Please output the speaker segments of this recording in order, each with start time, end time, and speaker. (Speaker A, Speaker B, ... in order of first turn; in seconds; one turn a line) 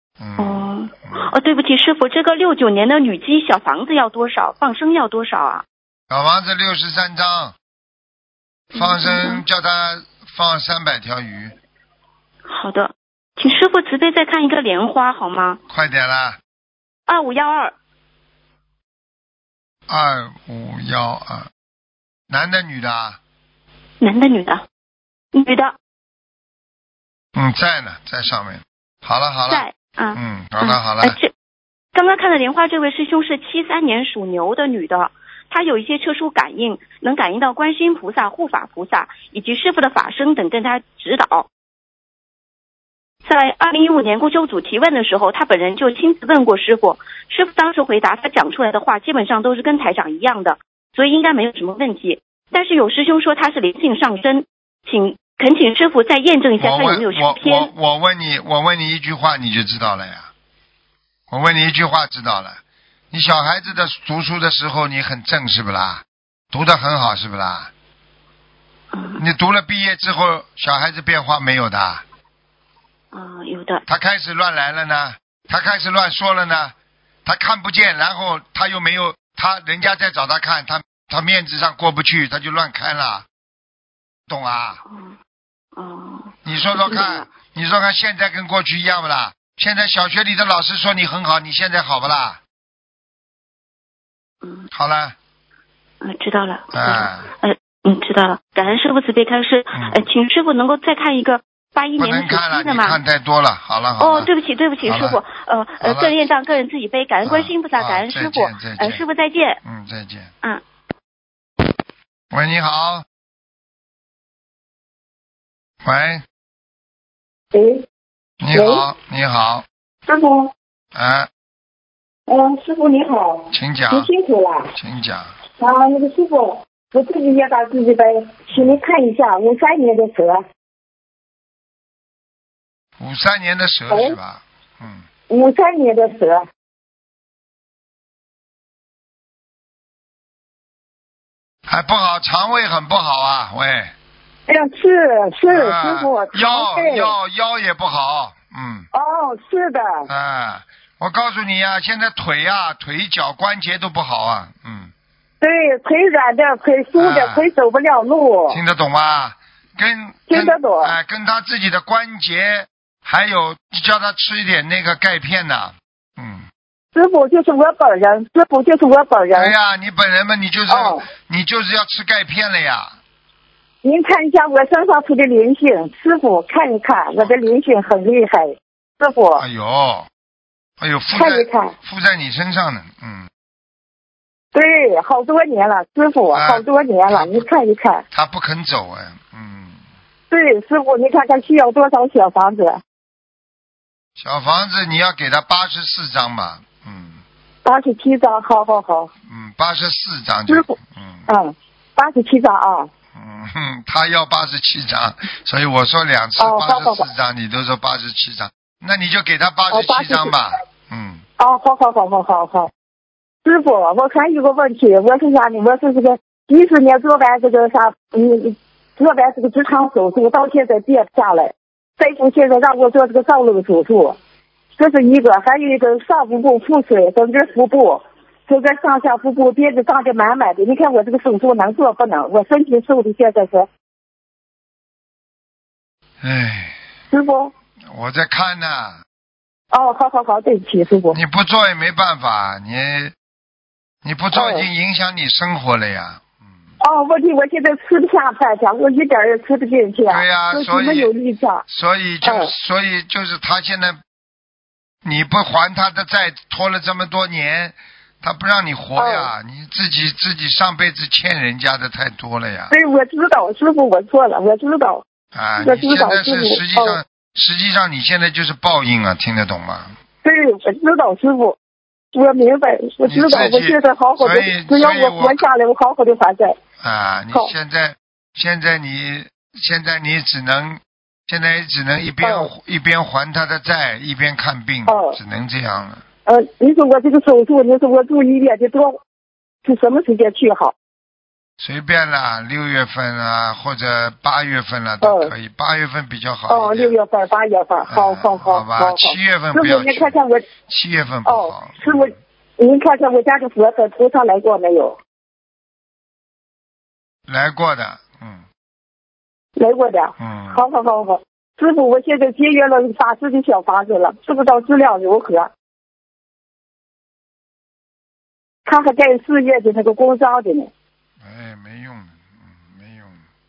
Speaker A: 0.2-1.3
Speaker B: 0.4-5.7
Speaker A: 6.1-7.6
Speaker A: 8.7-11.6
Speaker B: 8.7-9.4
Speaker B: 12.5-15.6
Speaker A: 15.7-16.4
Speaker B: 17.1-17.7
Speaker A: 19.9-21.5
Speaker A: 22.3-23.2
Speaker B: 24.0-24.6
Speaker B: 25.3-25.8
Speaker A: 27.4-31.2
Speaker B: 29.5-31.3
Speaker B: 31.9-41.5
Speaker B: 43.2-57.7
Speaker A: 56.6-60.3
Speaker A: 61.3-62.6
Speaker A: 63.1-67.7
Speaker B: 68.9-69.2
Speaker A: 69.2-72.0
Speaker B: 73.1-73.8
Speaker A: 73.9-76.7
Speaker A: 77.2-83.3
Speaker A: 84.3-84.8
Speaker B: 84.9-85.2
Speaker B: 85.8-87.3
Speaker A: 86.5-92.4
Speaker B: 94.4-94.7
Speaker A: 94.7-95.2
Speaker B: 96.0-103.0
Speaker A: 96.7-97.3
Speaker A: 99.7-100.0
Speaker A: 102.0-104.3
Speaker B: 104.0-109.6
Speaker A: 104.8-105.2
Speaker A: 105.8-106.2
Speaker A: 107.2-109.0
Speaker A: 109.6-110.3
Speaker A: 112.3-113.0
Speaker A: 115.8-116.2
Speaker C: 117.5-117.8
Speaker A: 118.4-119.7
Speaker C: 118.5-118.8
Speaker C: 120.1-120.5
Speaker A: 120.9-121.3
Speaker C: 122.3-124.7
Speaker A: 123.5-124.1
Speaker A: 124.8-125.3
Speaker C: 125.6-130.4
Speaker A: 128.5-128.8
Speaker A: 133.0-135.1
Speaker C: 133.9-134.2
Speaker C: 135.3-136.4
Speaker A: 141.7-143.9
Speaker C: 144.5-147.1
Speaker A: 145.5-148.9
Speaker C: 148.9-150.1
Speaker A: 150.1-154.9
Speaker C: 155.4-158.6
Speaker A: 157.0-157.5
Speaker A: 158.5-166.5
Speaker C: 160.3-160.9
Speaker C: 166.9-169.5
Speaker A: 169.3-173.0
Speaker C: 170.7-171.1
Speaker C: 173.8-179.4
Speaker A: 179.4-180.1
Speaker A: 180.8-183.3
Speaker C: 181.1-181.7
Speaker C: 184.5-188.0
Speaker A: 186.3-187.5
Speaker A: 188.1-189.8
Speaker C: 190.3-192.8
Speaker A: 194.2-197.2
Speaker C: 197.7-199.1
Speaker A: 199.3-201.3
Speaker C: 200.5-200.7
Speaker C: 201.3-202.9
Speaker A: 203.2-211.2
Speaker C: 206.4-207.1
Speaker C: 209.7-210.3
Speaker C: 211.4-212.7
Speaker C: 213.4-224.2
Speaker C: 224.8-233.7
Speaker A: 236.2-236.8
Speaker C: 237.1-237.5
Speaker A: 237.9-239.0
Speaker C: 239.7-241.2
Speaker A: 241.1-243.1
Speaker A: 244.0-246.4
Speaker C: 244.3-244.7
Speaker C: 246.8-251.6
Speaker A: 250.1-251.1
Speaker A: 251.7-254.0
Speaker C: 252.2-252.5
Speaker A: 255.0-262.7
Speaker C: 259.0-259.3
Speaker C: 262.7-265.0
Speaker A: 265.3-269.9
Speaker C: 265.6-267.0
Speaker C: 270.2-271.6
Speaker C: 272.1-276.6
Speaker A: 273.1-275.4
Speaker A: 276.8-286.0
Speaker C: 282.2-282.5
Speaker C: 284.9-285.2
Speaker C: 286.3-289.0
Speaker C: 289.6-290.7
Speaker A: 291.6-296.9
Speaker C: 295.0-295.3
Speaker C: 296.5-300.5
Speaker A: 297.9-302.1
Speaker C: 301.3-305.0
Speaker A: 307.3-308.4
Speaker C: 309.6-315.5
Speaker A: 310.2-310.6
Speaker C: 318.6-320.7
Speaker A: 321.2-323.2